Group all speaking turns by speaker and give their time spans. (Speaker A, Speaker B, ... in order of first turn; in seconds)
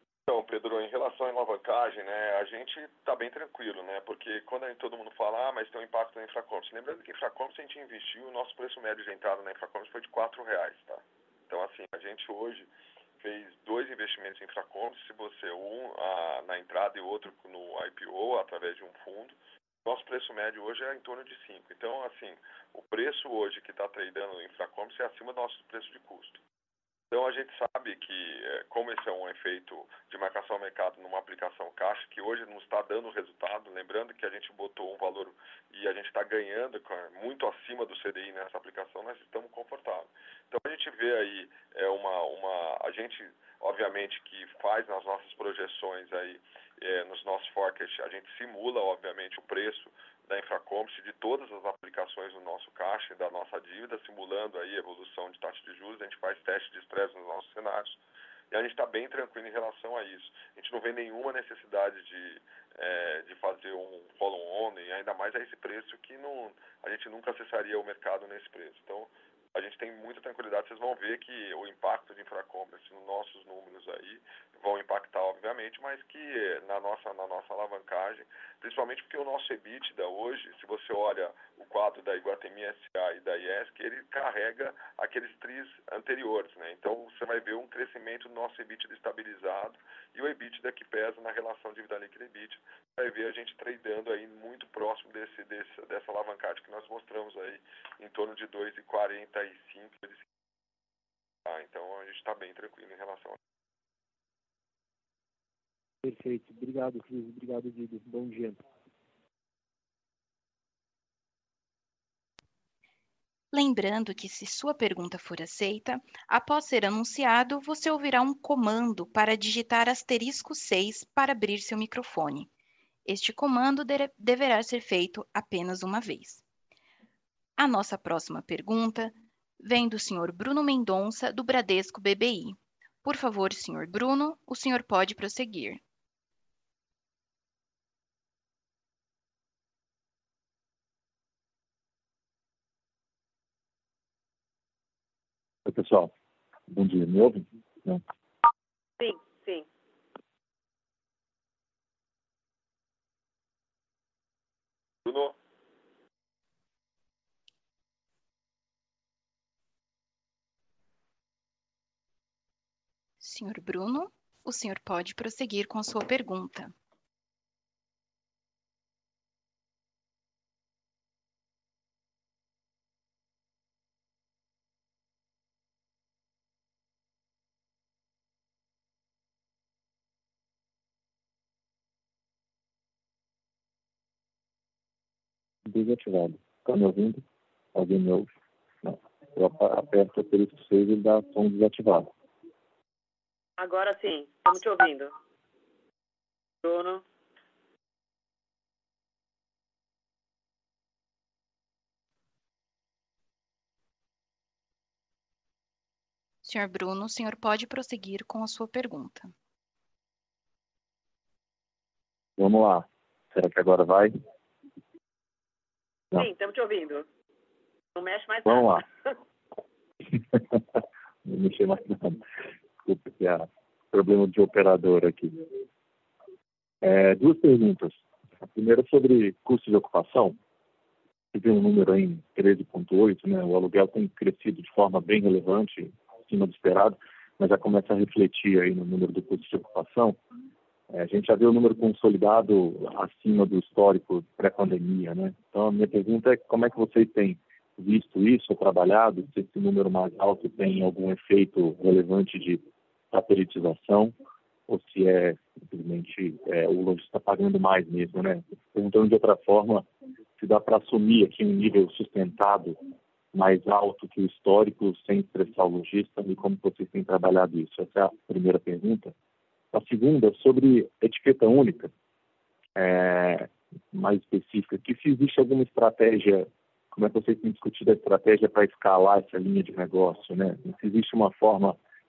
Speaker A: 0.3-26.4, 27.1-58.0, 58.5-100.2, 101.4-103.4, 155.0-155.3
Speaker B: 106.0-108.6
Speaker C: 113.5-122.5, 123.0-126.4, 127.6-135.8, 163.2-166.7, 206.4-209.3
Speaker D: 145.6-146.1, 146.7-148.0, 185.7-187.2, 187.7-188.3, 188.8-192.1, 212.4-214.2, 218.4-218.8, 221.2-222.2, 222.8-225.6, 226.8-230.3, 231.3-240.2, 240.9-254.1, 254.7-262.8, 263.3-269.1, 269.7-271.9, 272.8-281.8
Speaker E: 149.0-149.7, 193.6-195.1, 196.6-197.0, 216.1-217.0, 217.9-219.1